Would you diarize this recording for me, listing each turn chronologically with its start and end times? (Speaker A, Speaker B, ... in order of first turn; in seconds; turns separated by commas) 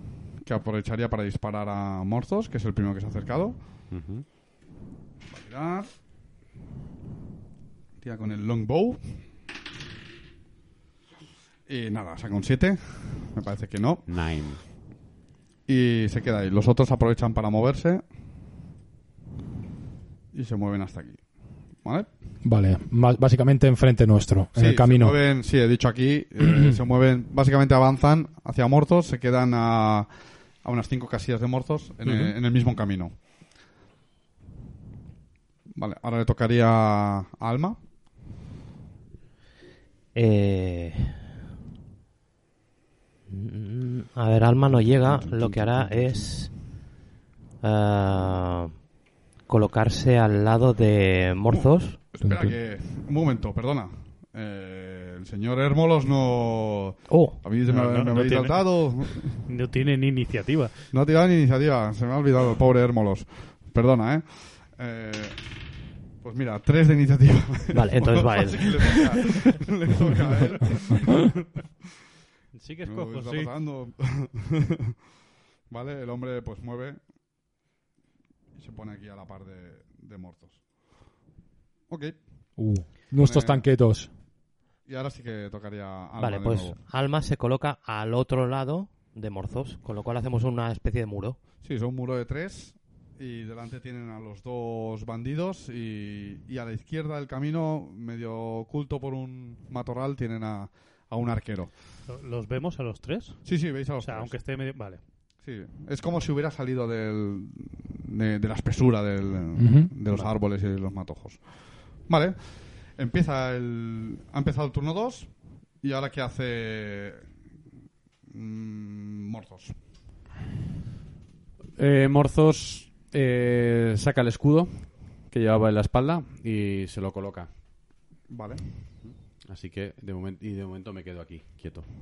Speaker A: 0.4-3.6, Speaker B: 3.9-4.2, Speaker A: 5.3-5.9, Speaker A: 8.0-9.2, Speaker A: 11.7-14.0, Speaker B: 14.1-14.6, Speaker A: 15.7-18.0, Speaker A: 20.3-21.2, Speaker A: 21.8-22.1, Speaker C: 22.4-25.2, Speaker A: 24.5-33.1, Speaker C: 26.4-26.8, Speaker A: 35.7-37.8, Speaker D: 40.1-41.2, Speaker D: 43.3-46.5, Speaker B: 45.1-46.2, Speaker D: 47.6-48.8, Speaker D: 49.5-52.0, Speaker A: 51.5-59.4, Speaker C: 52.2-52.5, Speaker D: 57.1-57.4, Speaker E: 57.6-60.8, Speaker A: 60.9-65.5, Speaker A: 66.2-71.6, Speaker D: 67.7-69.5, Speaker E: 72.5-73.5, Speaker A: 72.8-75.0, Speaker A: 75.7-77.0, Speaker A: 78.5-80.6, Speaker A: 81.9-82.2, Speaker C: 82.6-84.1, Speaker A: 83.1-83.7, Speaker A: 84.8-86.8, Speaker D: 86.2-91.4, Speaker A: 91.6-101.7, Speaker E: 102.1-105.0, Speaker A: 103.4-104.3, Speaker A: 105.4-111.4, Speaker C: 109.5-109.9, Speaker A: 112.0-115.3, Speaker A: 115.8-117.3, Speaker A: 118.3-119.8, Speaker B: 121.8-127.5, Speaker A: 128.3-128.6, Speaker B: 129.0-131.8